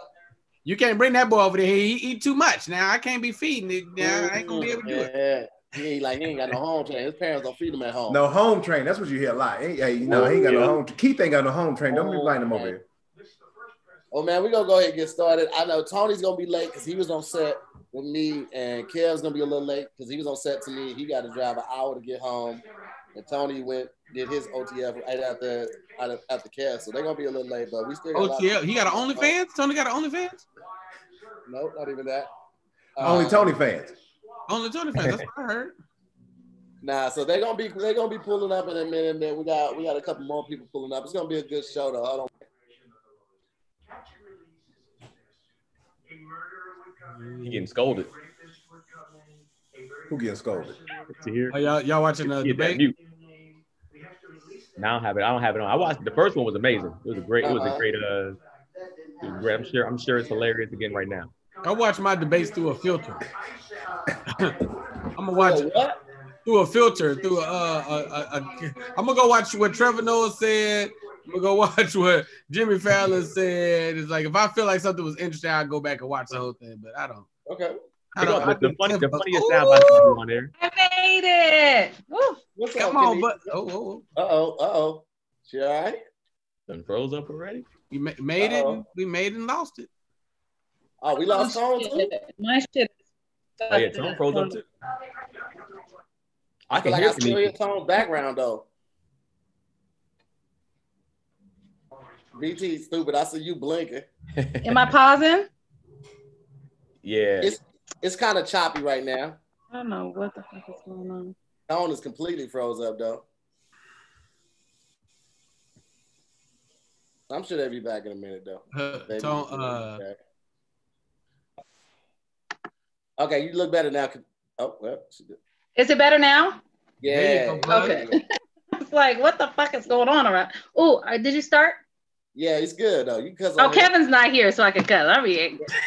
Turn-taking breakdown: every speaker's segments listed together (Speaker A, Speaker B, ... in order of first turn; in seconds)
Speaker A: 0.7-5.1, 28.1-30.4, 34.5-35.8, 47.2-47.7, 51.5-52.8, 61.6-63.3, 64.3-64.6, 65.2-65.7, 66.5-77.3, 78.2-80.2, 82.8-84.0, 87.9-89.9, 118.7-120.0, 127.0-128.0
Speaker B: 4.0-8.2, 10.1-10.7, 11.9-12.7, 14.1-22.6, 23.1-29.3, 31.5-32.3, 33.0-33.5, 36.8-42.3, 57.4-57.8, 65.3-66.0, 77.5-77.8, 82.6-83.4, 84.2-86.0, 88.4-88.8, 91.0-92.1, 96.7-98.7, 102.3-104.1, 107.4-109.4, 111.7-113.2, 117.3-120.2, 123.2-125.4, 127.0-128.2, 132.3-133.9
Speaker C: 8.1-12.8, 33.0-34.0, 50.1-50.8
Speaker D: 10.1-10.7, 47.4-48.1, 51.1-51.6, 52.2-53.0, 54.8-58.4, 59.2-61.3, 78.2-80.5, 86.7-87.7, 93.7-94.7, 96.7-97.5, 104.4-104.9, 107.0-107.5
Speaker E: 79.7-82.4, 91.2-92.9, 93.6-94.6, 104.6-105.5, 109.7-111.3, 125.8-126.6, 127.7-128.2, 128.8-131.8, 133.6-135.6